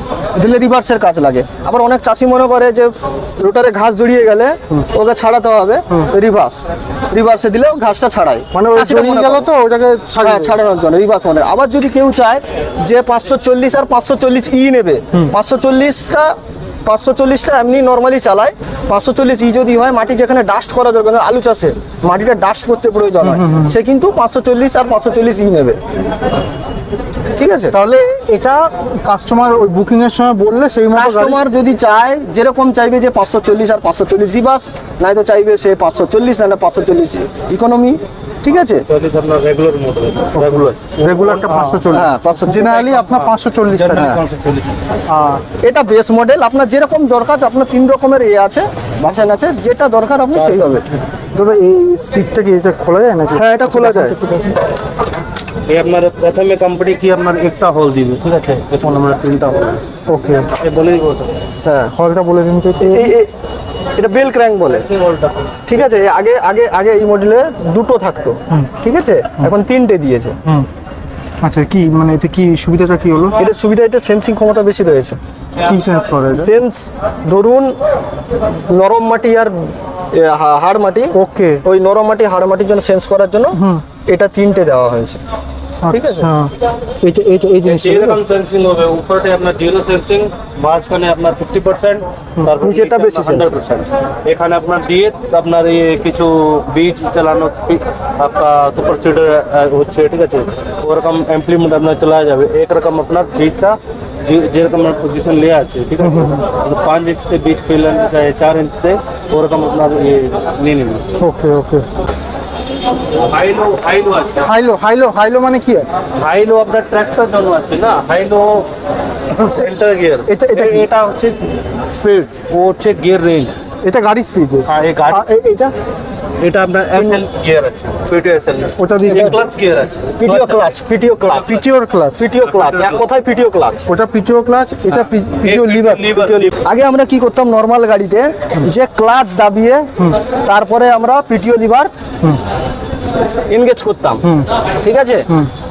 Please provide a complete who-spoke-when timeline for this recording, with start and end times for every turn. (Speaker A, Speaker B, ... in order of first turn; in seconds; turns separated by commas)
Speaker A: 0.3-9.5, Speaker B: 8.5-10.6, Speaker A: 10.2-16.3, Speaker A: 16.9-25.8, Speaker B: 23.2-23.8, Speaker A: 27.3-27.7, Speaker B: 27.7-31.4, Speaker A: 30.9-38.8, Speaker C: 38.9-41.9, Speaker B: 40.3-44.2, Speaker A: 41.9-42.8, Speaker C: 42.6-44.8, Speaker B: 45.1-45.4, Speaker A: 45.6-50.8, Speaker C: 50.4-50.8, Speaker B: 51.3-54.6, Speaker A: 53.3-54.1, Speaker C: 55.7-59.8, Speaker B: 60.1-60.5, Speaker C: 60.5-61.3, Speaker A: 61.6-61.9, Speaker B: 61.9-63.1, Speaker A: 62.8-63.3, Speaker A: 64.0-64.8, Speaker C: 64.9-65.5, Speaker A: 65.7-70.4, Speaker B: 71.4-73.4, Speaker A: 73.4-75.2, Speaker B: 75.6-76.5, Speaker A: 76.3-77.8, Speaker A: 78.7-79.5, Speaker A: 80.1-81.1, Speaker B: 81.2-81.6, Speaker A: 81.6-85.2, Speaker B: 83.5-83.8, Speaker B: 85.8-88.2, Speaker A: 85.9-86.3, Speaker C: 87.6-111.0, Speaker A: 92.6-93.6, Speaker B: 106.0-106.4, Speaker B: 111.2-111.8, Speaker C: 113.2-114.4, Speaker B: 114.4-115.9, Speaker C: 116.2-118.7, Speaker C: 119.3-123.5, Speaker B: 120.3-120.9, Speaker B: 123.8-125.7, Speaker C: 124.7-125.2, Speaker C: 126.4-130.7, Speaker B: 128.8-129.5, Speaker A: 129.0-129.4, Speaker A: 130.2-131.6, Speaker B: 131.4-132.3, Speaker A: 132.2-133.9, Speaker C: 132.6-132.9, Speaker B: 133.9-136.1, Speaker C: 135.4-136.5, Speaker A: 136.1-139.9, Speaker A: 140.4-141.9, Speaker A: 143.5-144.3, Speaker A: 144.8-145.2